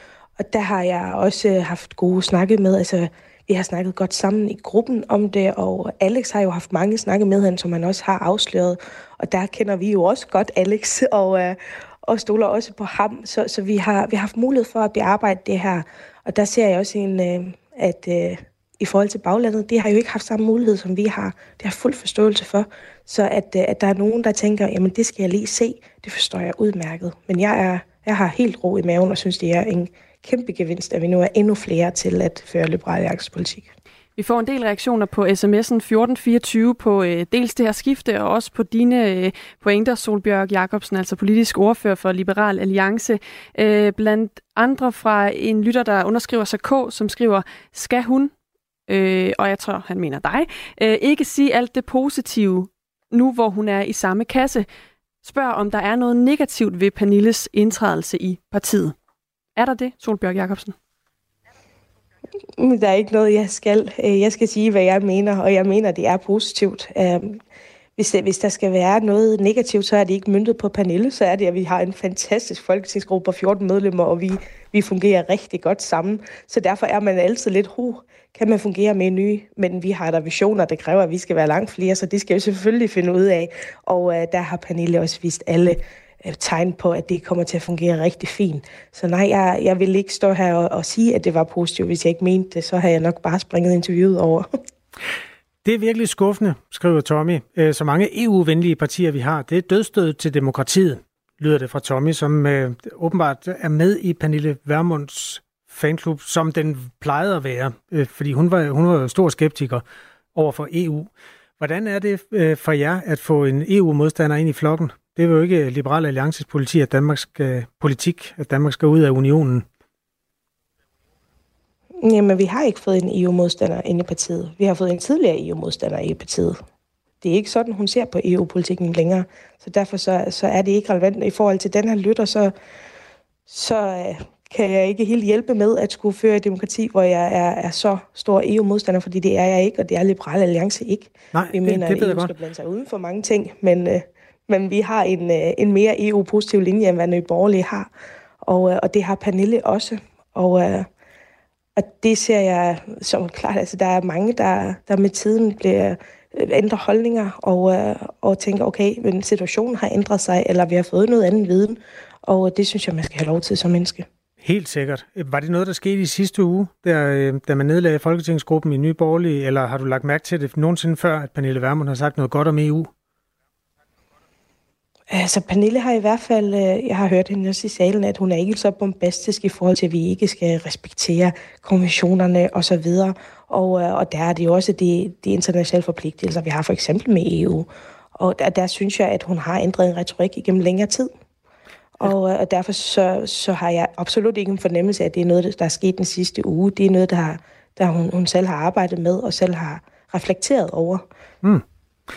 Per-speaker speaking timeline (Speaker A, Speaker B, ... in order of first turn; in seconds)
Speaker A: 0.4-33.7, 62.6-67.4, 68.0-94.5, 122.0-126.6, 127.2-132.5, 133.5-147.9, 148.4-150.9, 151.8-164.1, 175.1-191.1, 192.0-201.0
Speaker B: 34.2-48.3, 48.9-54.7, 55.2-58.9, 59.5-60.8
Speaker C: 95.6-119.7, 141.3-142.3, 164.4-172.9